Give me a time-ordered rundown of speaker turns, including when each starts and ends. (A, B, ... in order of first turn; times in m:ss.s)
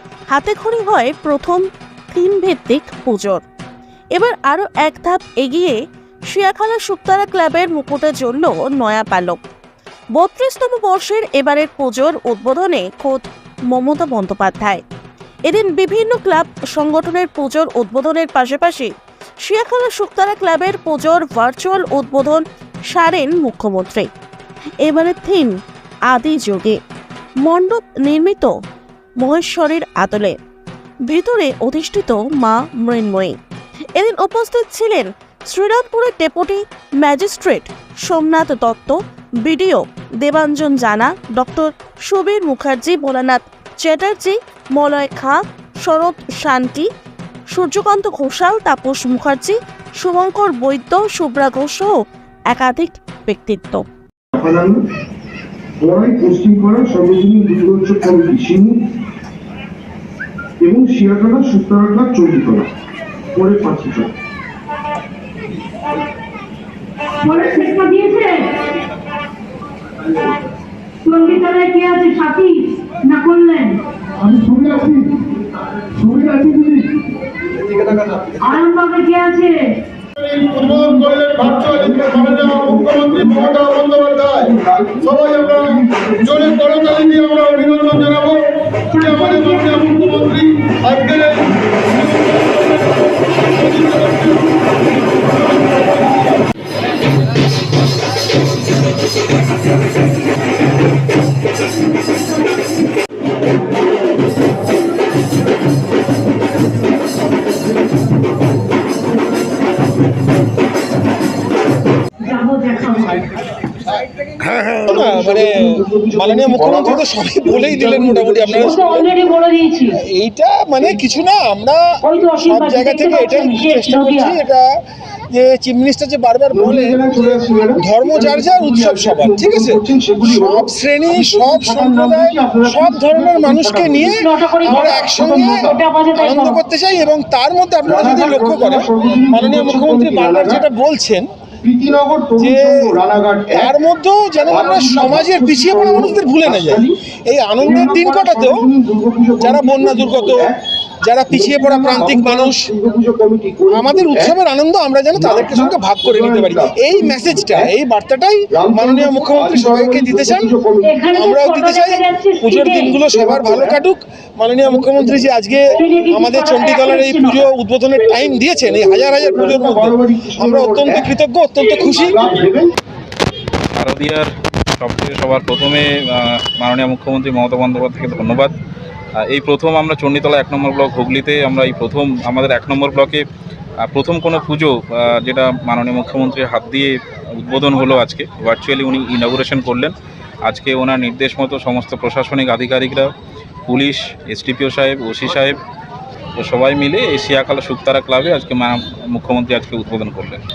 0:00.3-0:03.4 A
0:04.2-0:05.8 A
0:06.3-0:09.4 A
0:10.1-0:14.8 A
0:15.5-0:18.9 A
0:19.4-0:24.1 A
0:24.8-0:25.6 A
0:26.1-0:26.8 A
0:27.4-0:28.5 A
0:29.2-0:30.4 A
0:31.1-0:33.4 A
0:34.0-0:46.9 A
0:47.5-0:51.9 A
0:52.5-0:53.8 A
0:54.4-0:54.8 B
0:55.8-0:58.8 B
1:00.6-1:02.7 B
1:03.4-1:04.1 B
1:07.2-1:08.5 C
1:11.0-1:13.8 C
1:14.2-1:15.1 B
1:16.0-1:16.9 B
1:17.6-1:18.4 B
1:18.5-1:19.6 C
1:20.2-1:32.8 D
1:20.7-1:27.0 B
1:29.0-1:30.1 C
1:33.5-1:34.6 D
1:52.2-1:53.2 C
1:54.6-1:58.8 E
1:54.8-1:59.2 B
1:58.5-2:00.0 C
1:59.9-2:07.0 E
2:02.0-2:04.4 C
2:06.5-2:15.8 B
2:07.7-2:21.3 E
2:14.0-2:16.6 C
2:17.8-2:20.7 B
2:21.6-2:23.8 B
2:22.4-2:23.0 E
2:23.5-2:28.7 E
2:24.4-2:27.0 B
2:27.6-2:30.6 B
2:29.4-2:32.7 E
2:31.3-2:34.4 B
2:33.7-2:40.5 E
2:35.1-2:37.7 B
2:38.5-2:41.1 B
2:40.8-2:43.0 C
2:41.2-2:52.2 E
2:43.0-2:43.8 B
2:44.6-2:45.3 B
2:45.6-2:47.5 C
2:48.6-2:51.1 B
2:51.6-2:52.7 B
2:53.8-2:58.5 F
2:59.2-3:03.2 F
3:03.8-3:09.9 F
3:10.4-3:13.1 F
3:13.7-3:15.6 F
3:16.4-3:20.4 F